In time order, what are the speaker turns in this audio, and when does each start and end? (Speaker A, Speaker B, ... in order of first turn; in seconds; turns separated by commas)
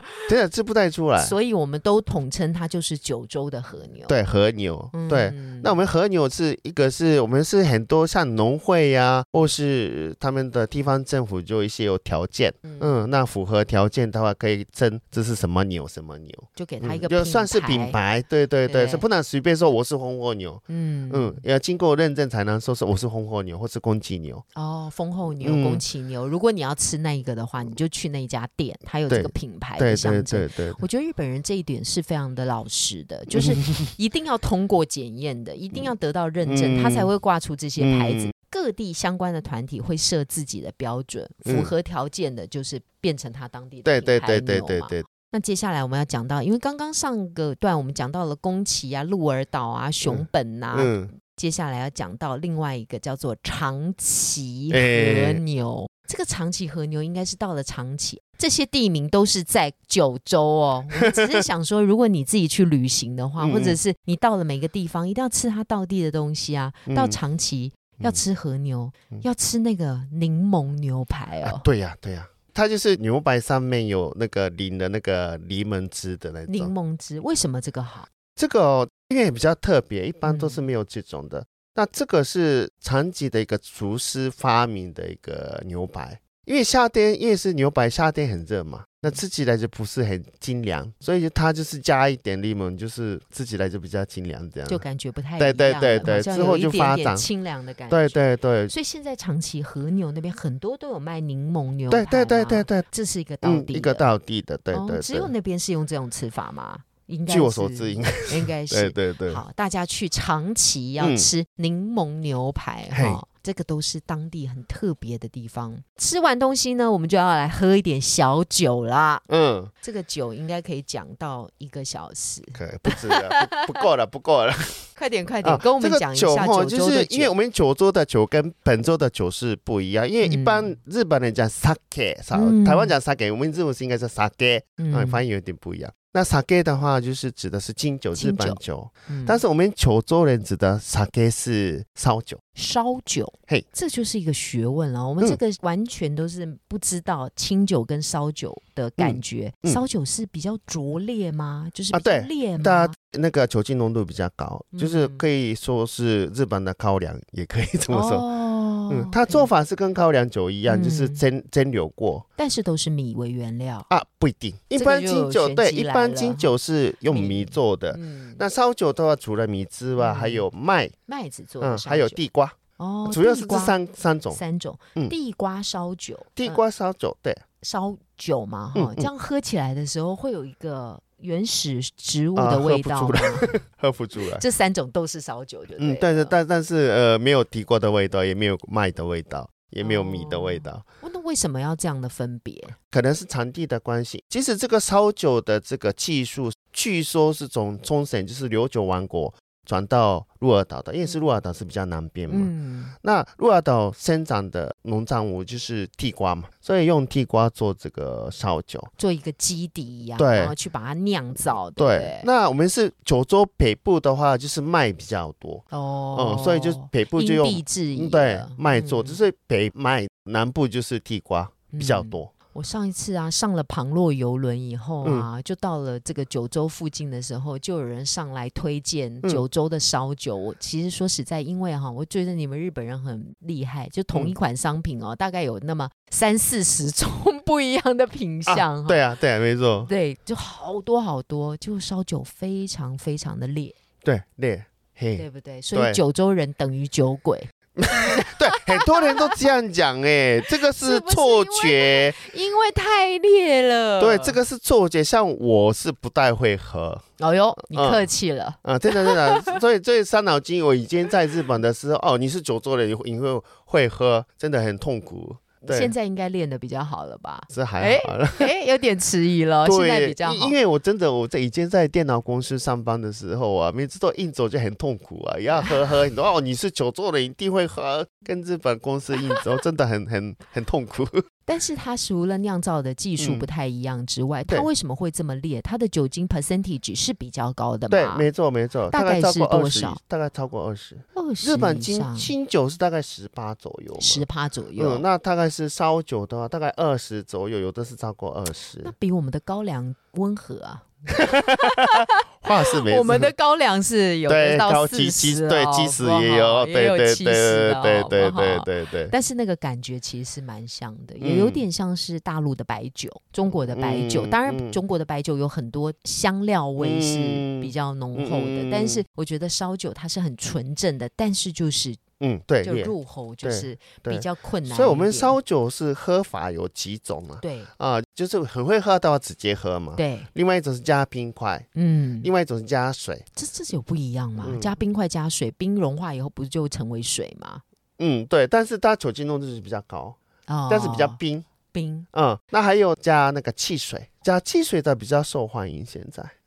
Speaker A: 0.2-1.4, Speaker B: 1.2-4.2, Speaker A: 4.1-24.4, Speaker B: 4.9-5.7, Speaker B: 12.6-12.9, Speaker B: 16.6-18.0, Speaker B: 18.7-19.1, Speaker B: 20.7-21.4, Speaker B: 24.6-71.7, Speaker A: 25.4-25.8, Speaker A: 29.1-30.8, Speaker A: 33.3-33.9, Speaker A: 36.5-37.1, Speaker A: 37.8-38.3, Speaker A: 41.5-41.7, Speaker A: 43.9-45.0, Speaker A: 50.0-51.1, Speaker A: 54.7-55.4, Speaker A: 61.0-61.5, Speaker A: 63.4-63.8, Speaker A: 66.9-67.2, Speaker A: 71.4-76.7, Speaker B: 76.5-78.1, Speaker A: 78.4-94.8, Speaker B: 80.2-80.6, Speaker B: 94.7-104.0, Speaker A: 95.4-97.3, Speaker A: 97.9-98.7, Speaker A: 101.9-102.8, Speaker A: 103.4-105.3, Speaker B: 104.7-119.2, Speaker A: 107.3-109.4, Speaker A: 111.0-111.3, Speaker A: 112.9-113.2, Speaker A: 119.3-119.7, Speaker B: 119.8-123.8, Speaker A: 122.5-124.9, Speaker B: 125.0-127.3, Speaker A: 125.4-142.4, Speaker B: 130.2-130.7, Speaker B: 132.3-132.9, Speaker B: 134.8-135.2, Speaker B: 138.1-139.4, Speaker B: 142.6-152.9, Speaker A: 149.0-149.8, Speaker A: 151.9-158.2, Speaker B: 154.7-155.2, Speaker B: 157.9-159.5, Speaker A: 158.9-162.2, Speaker B: 160.7-161.2, Speaker B: 162.4-163.9, Speaker A: 163.9-170.9, Speaker B: 164.7-166.5, Speaker B: 167.1-168.4, Speaker B: 170.0-170.5, Speaker B: 171.1-172.2, Speaker A: 171.6-174.4, Speaker B: 172.8-176.6, Speaker A: 176.4-177.4, Speaker B: 177.6-183.6, Speaker A: 178.8-179.1, Speaker A: 182.4-184.4, Speaker B: 184.4-186.3, Speaker A: 185.8-190.8, Speaker B: 189.8-192.8, Speaker A: 192.9-208.9, Speaker B: 202.3-202.9, Speaker B: 209.0-212.3, Speaker A: 210.2-210.5, Speaker A: 211.8-222.3, Speaker B: 215.7-219.2, Speaker B: 221.7-239.1, Speaker A: 238.5-239.9, Speaker B: 239.9-243.8, Speaker A: 244.0-246.0, Speaker B: 245.2-249.5, Speaker A: 247.8-252.2, Speaker B: 250.6-254.4, Speaker A: 254.0-257.0, Speaker B: 257.2-259.6, Speaker A: 257.6-258.1, Speaker A: 258.6-265.9, Speaker B: 265.7-270.6, Speaker A: 267.5-268.5, Speaker A: 269.6-281.2, Speaker B: 281.5-288.3, Speaker A: 283.2-283.5, Speaker A: 287.9-294.2, Speaker B: 288.9-290.0, Speaker B: 291.1-292.3, Speaker B: 294.0-295.0, Speaker A: 294.8-298.9, Speaker B: 298.8-322.0, Speaker A: 301.2-303.3, Speaker A: 304.3-309.1, Speaker A: 311.2-311.6, Speaker A: 313.5-314.8, Speaker A: 316.8-319.0, Speaker A: 322.2-331.7, Speaker B: 322.6-325.4, Speaker B: 327.4-327.7, Speaker B: 330.0-330.3, Speaker B: 331.8-332.3, Speaker A: 332.2-333.2, Speaker B: 333.4-337.6, Speaker A: 334.4-334.8, Speaker A: 338.0-340.2, Speaker B: 340.5-341.2, Speaker A: 340.7-341.5, Speaker B: 341.7-342.1, Speaker A: 342.1-346.3